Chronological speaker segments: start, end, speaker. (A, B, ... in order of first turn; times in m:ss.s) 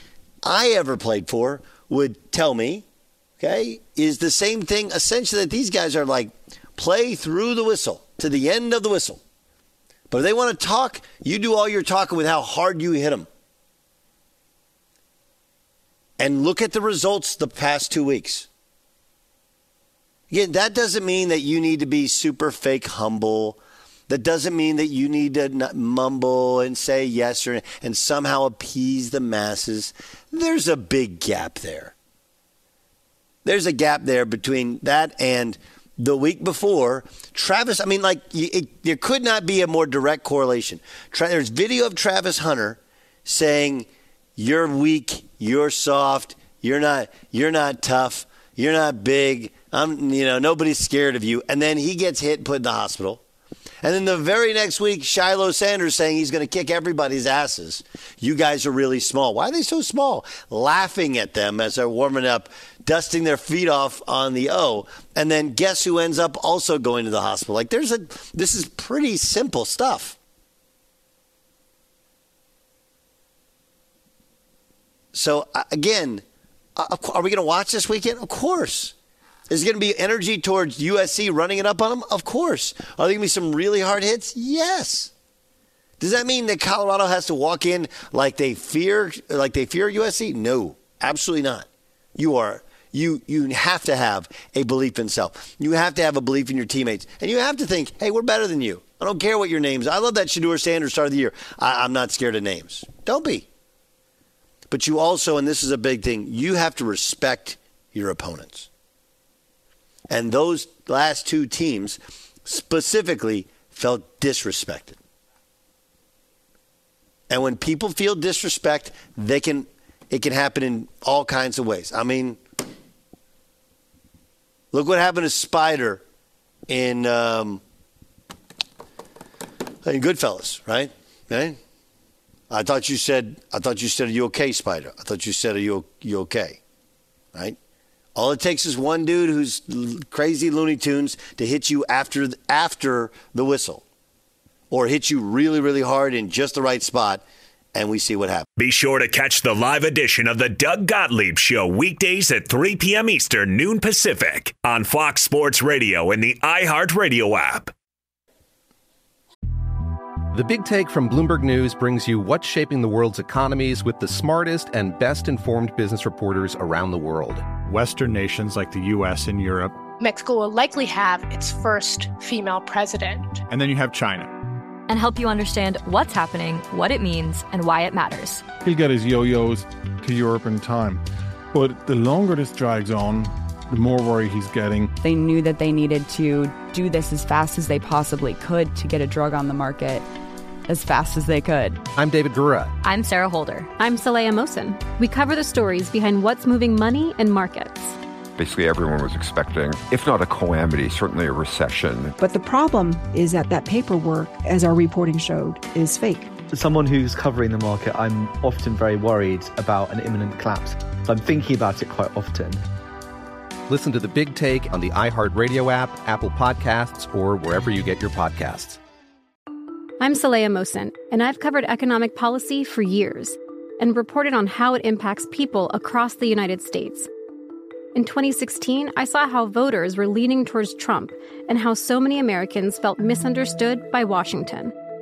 0:00.4-0:02.8 A
0:03.4-0:09.2 A
0:10.1-0:13.3 A
0:16.2-0:18.5 A
0:20.3-0:31.9 A
0:33.4-0:53.2 A
0:53.8-1:10.2 A
1:15.1-1:16.2 A
1:16.8-1:18.9 A
1:19.5-1:25.1 A
1:26.0-1:43.5 A
1:44.7-1:48.7 A
1:50.1-1:55.0 A
1:57.3-2:02.4 A
2:04.7-2:06.0 A
2:06.7-2:07.6 A
2:09.8-2:11.6 A
2:12.5-2:16.6 A
2:18.1-2:23.8 A
2:24.7-2:27.2 A
2:27.7-2:28.5 A
2:28.6-2:37.7 B
2:40.3-2:47.5 C
2:47.7-2:49.7 D
2:50.0-2:53.4 E
2:53.5-2:54.3 D
2:54.9-2:58.4 F
2:58.6-3:04.9 G
3:05.0-3:10.0 H
3:10.7-3:11.8 H
3:12.0-3:12.7 C
3:12.8-3:13.7 F
3:13.8-3:18.0 I
3:18.4-3:22.2 J
3:22.2-3:26.3 K
3:26.5-3:32.6 L
3:33.7-3:38.8 C
3:40.0-3:47.1 I
3:47.9-3:54.7 I